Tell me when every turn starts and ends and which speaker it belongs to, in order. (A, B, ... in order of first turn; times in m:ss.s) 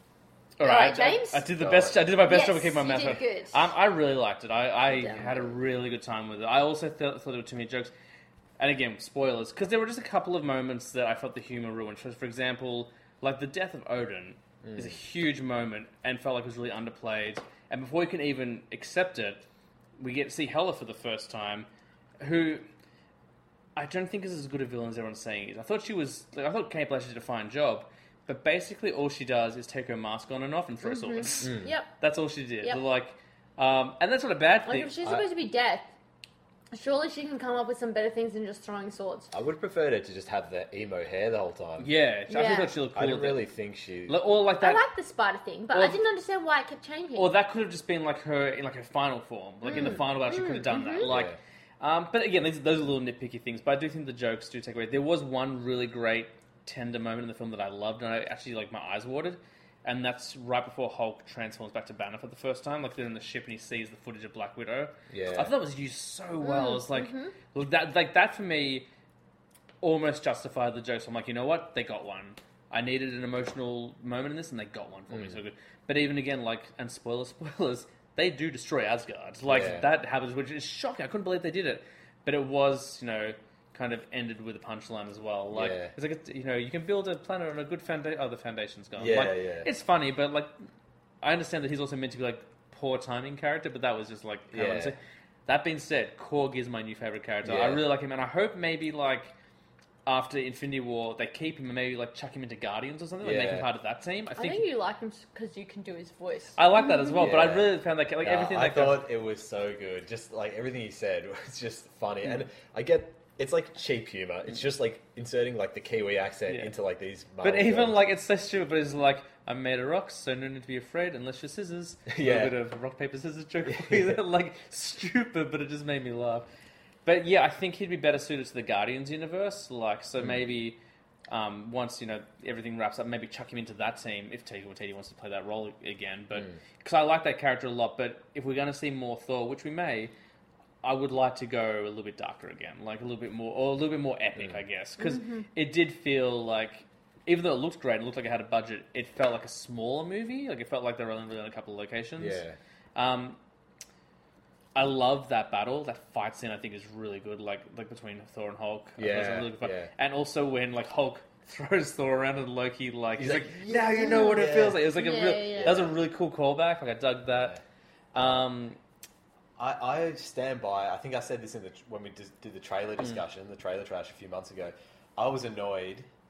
0:00.6-0:07.9 A
0:00.6-0:01.5 B
0:01.6-0:02.0 C
0:02.2-0:03.7 B
0:04.9-0:05.5 B
0:08.6-0:19.4 A
0:14.6-0:15.0 C
0:20.0-0:21.7 A
0:22.2-0:22.7 A
0:23.8-0:34.9 A
0:30.8-0:31.9 B
0:31.4-0:31.7 C
0:34.7-0:35.9 B
0:36.7-0:39.3 B
0:39.3-0:41.9 C
0:41.8-0:43.5 A
0:42.3-0:42.7 B
0:42.9-0:44.2 C
0:44.1-0:44.8 A
0:44.6-0:47.3 B
0:45.7-0:46.0 A
0:47.2-1:08.9 A
0:49.6-0:51.1 B
0:51.0-0:51.4 C
1:05.1-1:05.5 C
1:06.4-1:07.4 B
1:09.8-1:30.5 A
1:15.1-1:15.4 C
1:19.5-1:19.9 C
1:25.5-1:26.0 C
1:29.0-1:29.7 C
1:31.2-1:39.3 A
1:34.5-1:35.0 C
1:37.4-1:37.8 C
1:40.1-1:44.6 A
1:43.2-1:43.7 C
1:44.4-1:47.1 B
1:46.6-1:49.0 A
1:47.2-1:58.0 C
1:56.5-1:56.7 A
1:57.4-2:06.5 A
2:02.1-2:02.6 C
2:03.6-2:04.2 C
2:07.0-2:20.1 A
2:10.2-2:10.5 C
2:16.3-2:16.6 C
2:20.8-2:32.4 A
2:24.4-2:24.6 C
2:25.0-2:25.5 B
2:32.2-2:32.6 C
2:33.0-2:33.4 A
2:34.8-2:47.6 A
2:39.0-2:39.9 C
2:43.2-2:44.9 C
2:44.0-2:44.4 B
2:44.9-2:45.9 B
2:45.5-2:46.0 C
2:47.3-2:47.6 C
2:48.1-2:48.8 A
2:48.2-2:48.5 C
2:49.6-2:56.1 C